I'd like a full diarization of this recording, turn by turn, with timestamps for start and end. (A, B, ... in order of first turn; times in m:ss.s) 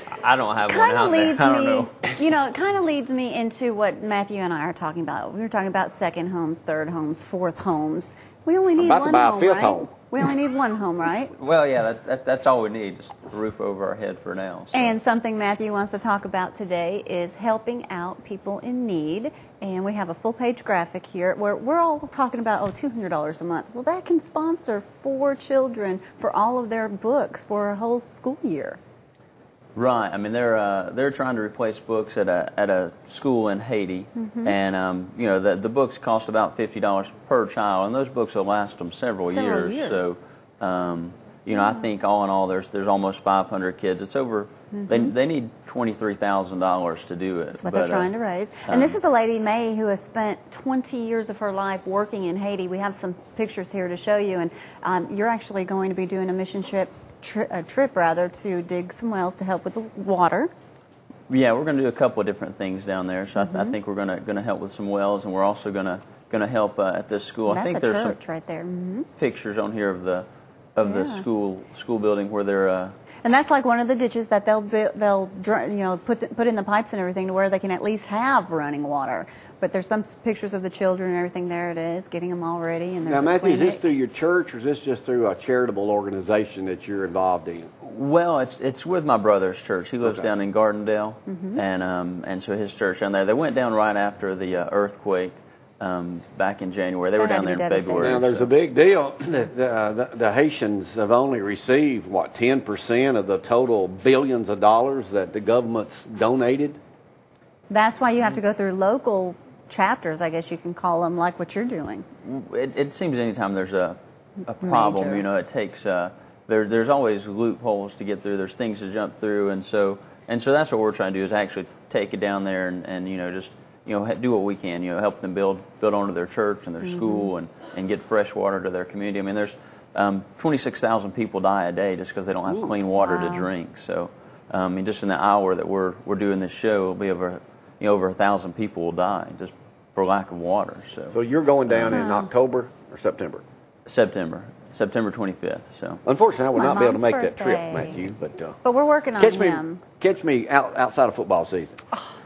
0:00.2-0:02.0 A
0:00.7-0:11.3 B
0:08.8-0:09.9 C
0:11.4-0:15.0 A
0:14.7-0:28.8 B
0:29.8-0:48.1 A
0:34.2-0:34.6 B
0:39.3-0:40.2 B
0:44.7-0:45.1 B
0:47.6-1:00.5 B
0:48.7-0:49.0 A
1:01.3-1:08.2 A
1:03.4-1:03.8 B
1:07.5-1:09.1 B
1:09.2-1:12.9 A
1:10.8-1:11.2 B
1:13.2-1:23.9 B
1:23.1-1:27.7 C
1:27.8-1:38.5 A
1:31.3-1:31.6 B
1:37.2-1:38.2 B
1:38.0-1:46.8 C
1:47.7-1:52.1 B
1:52.2-2:21.2 A
1:54.6-1:55.3 B
2:06.8-2:07.3 B
2:13.0-2:13.5 B
2:21.1-2:23.4 C
2:21.7-2:22.0 A
2:21.9-2:22.3 B
2:23.9-2:26.0 A
2:26.0-2:28.6 C
2:26.6-2:28.0 B
2:28.6-2:29.8 B
2:29.2-2:31.8 C